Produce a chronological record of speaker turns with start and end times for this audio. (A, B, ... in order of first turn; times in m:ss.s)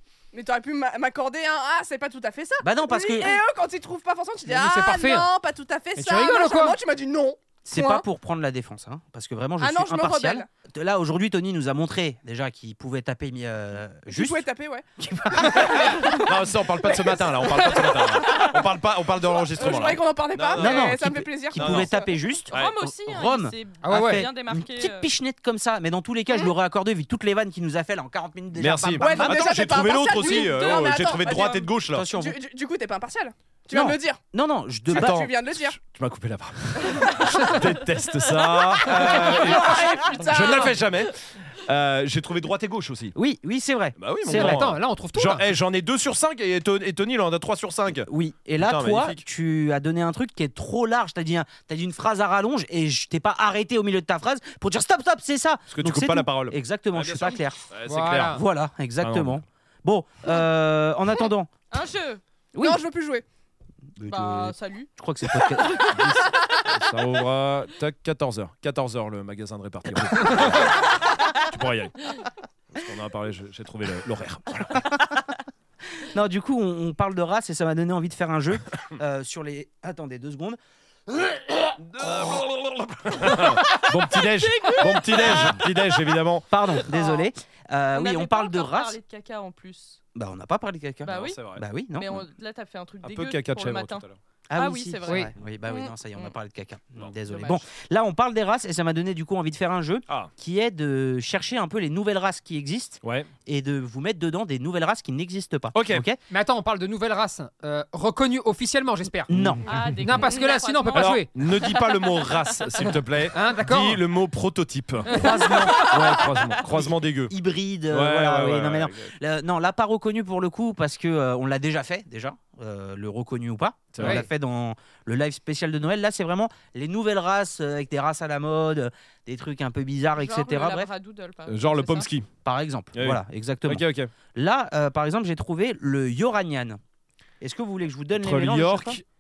0:00.3-0:08.0 A
0:02.6-0:03.4 B
0:04.4-0:05.3 C
0:06.0-0:06.8 C
0:07.6-0:14.5 B
0:09.6-0:10.5 A
0:14.1-0:14.8 A
0:15.0-0:16.2 B
0:15.4-0:16.2 A
0:15.5-0:21.0 D
0:16.9-0:18.7 A
0:19.2-0:22.1 A
0:20.6-0:29.5 B
0:21.6-0:21.9 D
0:22.5-0:25.1 E
0:23.8-0:24.3 C
0:28.6-0:32.1 D
0:29.0-0:34.2 A
0:30.2-0:31.0 E
0:31.9-0:32.4 B
0:33.7-0:35.3 B
0:34.9-0:43.1 D
0:34.9-0:35.8 A
0:38.9-0:40.8 A
0:43.2-0:44.6 B
0:44.0-0:49.2 D
0:44.3-0:45.5 C
0:48.0-0:57.6 B
0:55.7-0:58.4 D
0:57.9-0:58.4 C
0:58.2-1:01.5 B
0:59.0-0:59.4 D
1:01.7-1:02.2 E
1:02.6-1:02.8 B
1:02.6-1:03.2 A
1:04.0-1:06.3 B
1:04.0-1:06.3 E
1:06.6-1:12.2 D
1:12.7-1:14.9 D
1:14.8-1:15.2 B
1:16.0-1:22.4 B
1:21.8-1:26.5 D
1:23.7-1:26.2 E
1:25.2-1:25.6 B
1:26.5-1:29.0 B
1:26.8-1:27.3 E
1:27.9-1:30.0 E
1:30.2-1:32.2 B
1:31.0-1:31.4 E
1:31.0-1:31.6 D
1:31.9-1:36.3 E
1:33.0-1:34.2 D
1:34.5-1:46.2 B
1:35.1-1:35.3 C
1:37.3-1:37.6 E
1:43.0-1:43.3 D
1:45.7-1:46.0 D
1:46.3-1:49.3 C
1:49.3-1:49.7 B
1:49.3-1:49.6 D
1:49.6-1:53.0 E
1:50.0-1:51.3 C
1:51.0-1:57.3 D
1:53.3-1:54.0 C
1:55.1-2:10.9 B
1:55.1-1:55.6 C
1:55.4-1:56.5 E
1:57.9-1:59.1 D
2:03.9-2:04.2 D
2:04.0-2:04.3 C
2:10.2-2:12.1 E
2:11.5-2:12.3 D
2:12.4-2:16.8 B
2:13.0-2:14.1 D
2:17.4-2:19.0 B
2:18.2-2:19.0 D